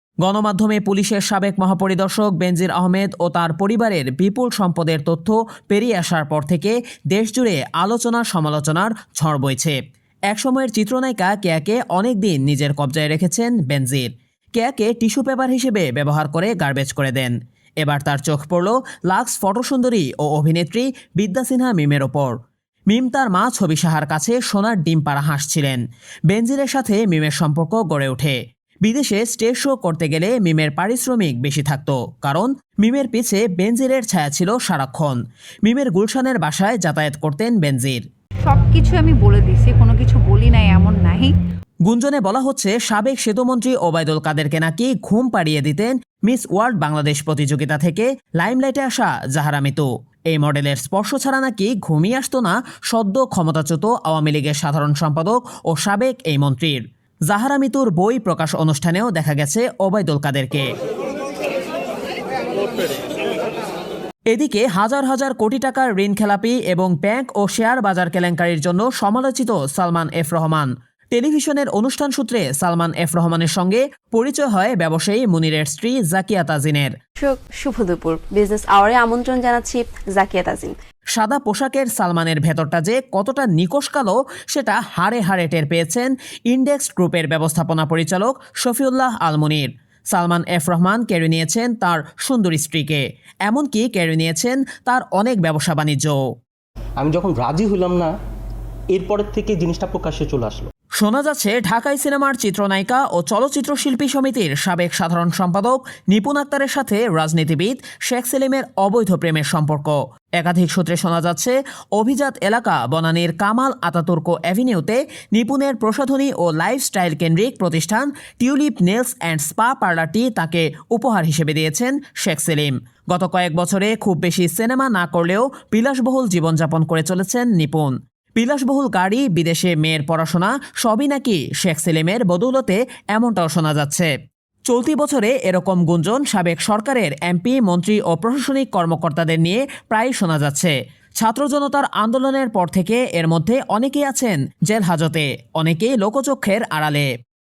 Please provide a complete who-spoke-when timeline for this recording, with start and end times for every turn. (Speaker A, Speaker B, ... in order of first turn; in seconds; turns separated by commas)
Speaker A: 0.2-9.8, Speaker A: 10.3-22.4, Speaker A: 22.9-38.0, Speaker B: 38.4-41.3, Speaker A: 41.9-60.7, Speaker A: 64.3-76.9, Speaker C: 77.2-80.7, Speaker A: 81.2-96.2, Speaker D: 97.0-98.1, Speaker D: 98.9-100.7, Speaker A: 101.0-134.1, Speaker A: 134.7-147.1